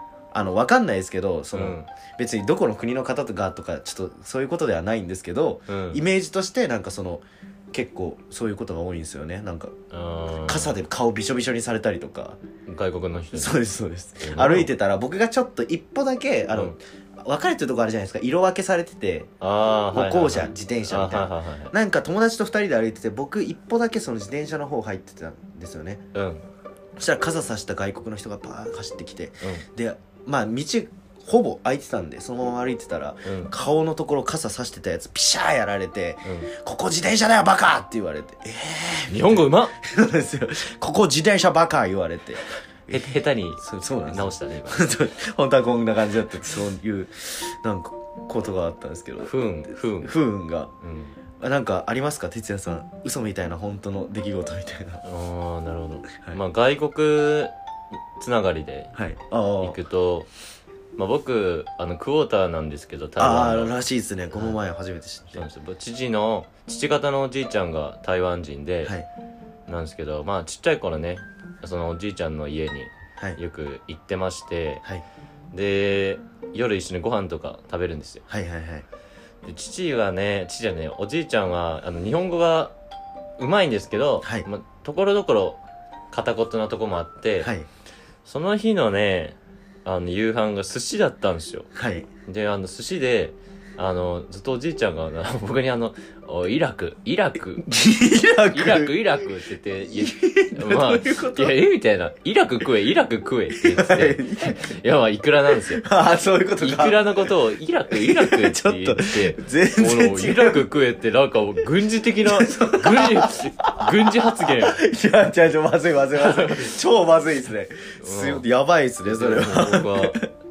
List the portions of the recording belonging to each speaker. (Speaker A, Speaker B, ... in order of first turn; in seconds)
Speaker A: 0.3-9.7, 10.5-12.4, 13.3-19.3, 19.9-26.0, 27.0-43.0, 43.6-49.3, 50.0-50.7, 51.4-55.0, 58.9-59.8, 63.2-65.5, 78.3-78.8, 87.4-87.7, 91.7-92.1, 97.6-99.3, 99.8-101.6, 103.6-104.6, 105.7-107.0, 107.9-110.6, 112.2-120.3
Speaker B: 1.5-1.9, 5.7-6.0, 9.9-10.7, 12.7-13.6, 14.2-14.7, 19.4-21.7, 26.1-26.4, 33.2-33.5, 36.2-36.5, 39.1-39.7, 42.9-44.9, 49.2-50.1, 50.8-51.1, 55.0-57.5, 58.2-58.9, 59.6-60.3, 61.0-63.8, 64.3-64.6, 65.3-68.9, 69.7-74.8, 75.5-78.2, 79.4-82.7, 83.4-87.5, 88.2-91.7, 92.2-97.7, 98.5-105.8, 106.6-114.8, 116.2-116.7, 118.0-118.4, 119.1-120.2